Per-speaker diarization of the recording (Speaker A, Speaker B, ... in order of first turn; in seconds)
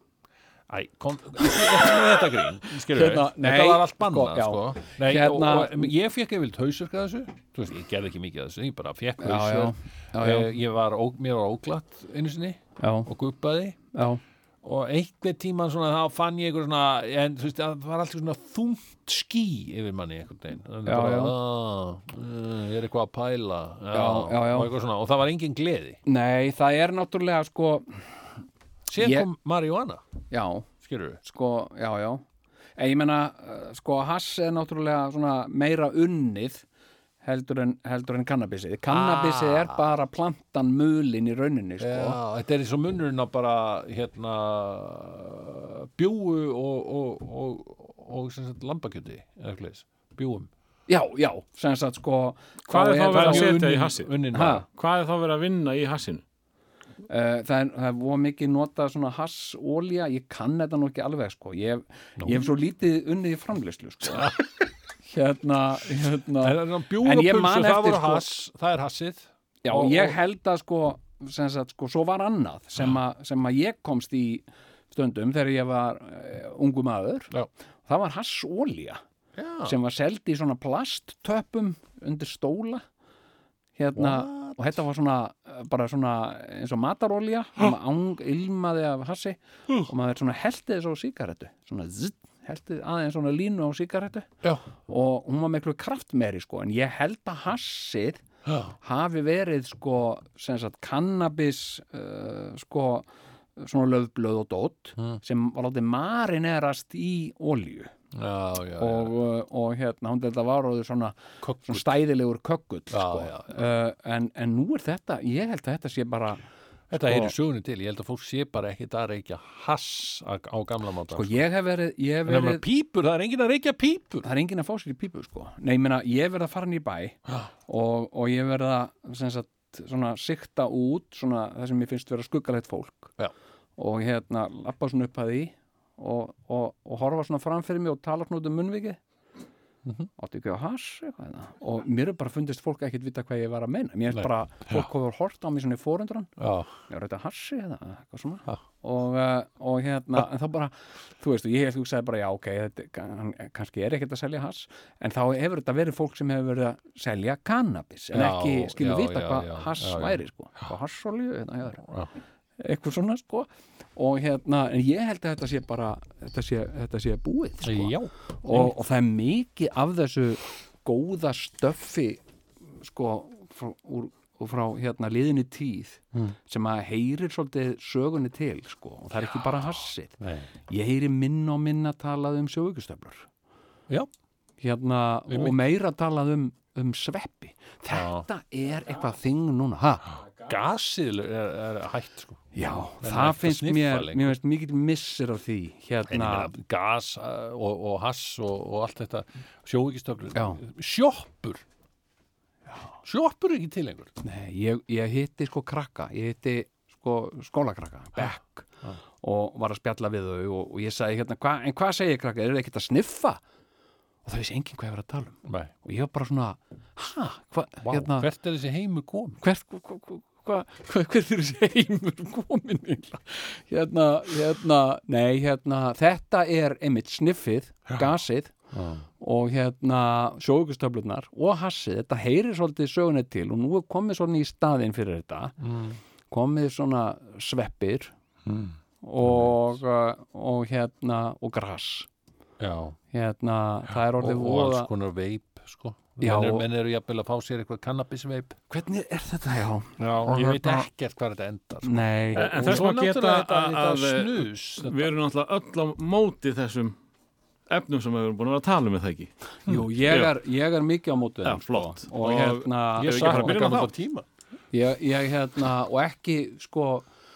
Speaker A: 0.7-13.8, 14.6-26.0, 28.9-30.0, 30.8-31.2, 38.9-39.8, 41.8-50.5, 53.1-54.6, 62.2-62.5, 64.1-64.4, 66.4-70.2, 79.3-79.7, 83.9-84.8, 98.5-98.7, 108.1-109.1, 111.4-111.9, 112.9-113.7, 116.9-121.4, 122.2-124.2, 144.2-144.9, 146.4-146.7, 158.1-160.2, 161.7-162.1, 167.6-168.8, 179.2-180.5, 185.3-185.6, 187.9-188.2, 190.4-192.4, 193.0-194.4, 196.1-201.6, 203.0-204.1, 215.4-215.7, 217.8-219.4, 228.7-229.1, 235.6-236.0, 238.4-239.8, 242.6-243.0, 243.9-248.6, 250.0-255.1, 263.0-264.3
Speaker B: 2.7-5.9, 9.2-10.5, 12.8-13.1, 13.9-14.2, 20.9-21.3, 23.9-24.7, 26.1-28.0, 29.0-29.3, 30.3-30.7, 31.2-32.2, 32.8-36.6, 37.2-42.2, 50.9-53.5, 54.3-54.6, 57.1-64.4, 65.0-68.3, 69.6-77.3, 77.9-79.0, 79.6-82.8, 83.8-94.3, 94.9-98.2, 98.8-107.9, 108.8-117.3, 121.1-122.6, 124.2-133.1, 133.8-139.0, 140.2-146.3, 146.9-161.8, 162.6-172.2, 172.8-180.2, 180.7-183.3, 184.6-190.0, 192.5-196.5, 200.3-200.6, 204.2-208.7, 209.2-213.4, 214.2-218.3, 219.4-228.5, 229.2-235.5, 236.3-238.1, 239.0-242.1, 243.1-244.9, 246.2-246.7, 248.7-250.8, 251.8-252.8, 259.6-263.6, 264.7-267.1
Speaker C: 52.7-54.1, 54.7-56.2, 252.3-256.9, 257.7-259.5, 261.4-263.9